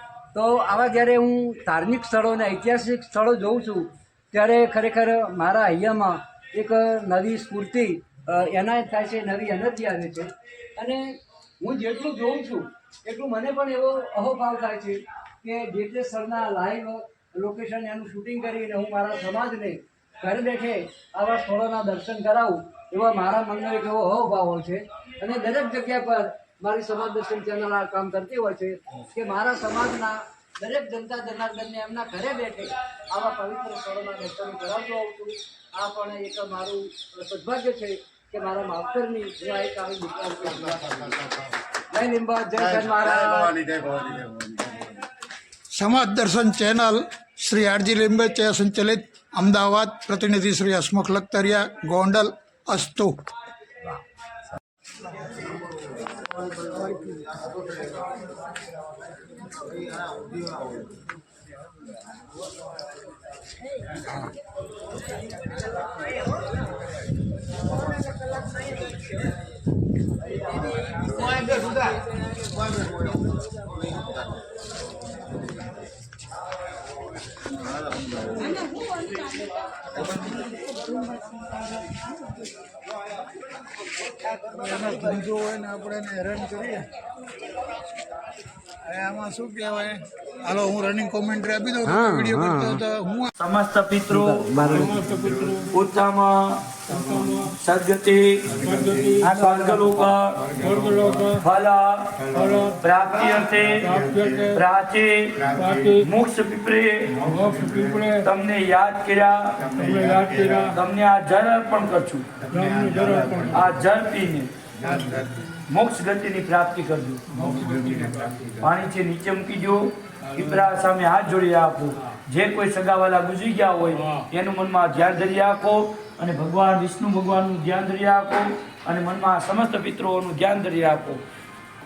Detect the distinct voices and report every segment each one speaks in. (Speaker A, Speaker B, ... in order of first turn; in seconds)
Speaker A: 0.3-41.0, 41.9-43.5, 91.9-92.8, 94.1-94.9
Speaker B: 40.4-41.8, 42.5-45.0
Speaker C: 45.7-53.2, 80.0-80.5, 84.4-86.8, 88.9-93.3
Speaker D: 93.4-94.5, 95.7-96.6, 97.5-98.5, 99.2-100.4, 101.4-102.2, 102.7-103.9, 104.5-107.2, 108.2-109.6, 110.7-112.3, 113.5-114.5, 115.7-117.2, 118.6-131.2
Speaker E: 94.6-95.7, 96.9-97.5, 98.5-99.8, 100.4-101.4, 102.3-102.8, 103.8-104.6, 105.5-106.0, 107.2-108.2, 109.6-110.8, 112.5-113.8, 114.8-115.3, 117.3-118.6, 120.2-120.6, 123.9-124.2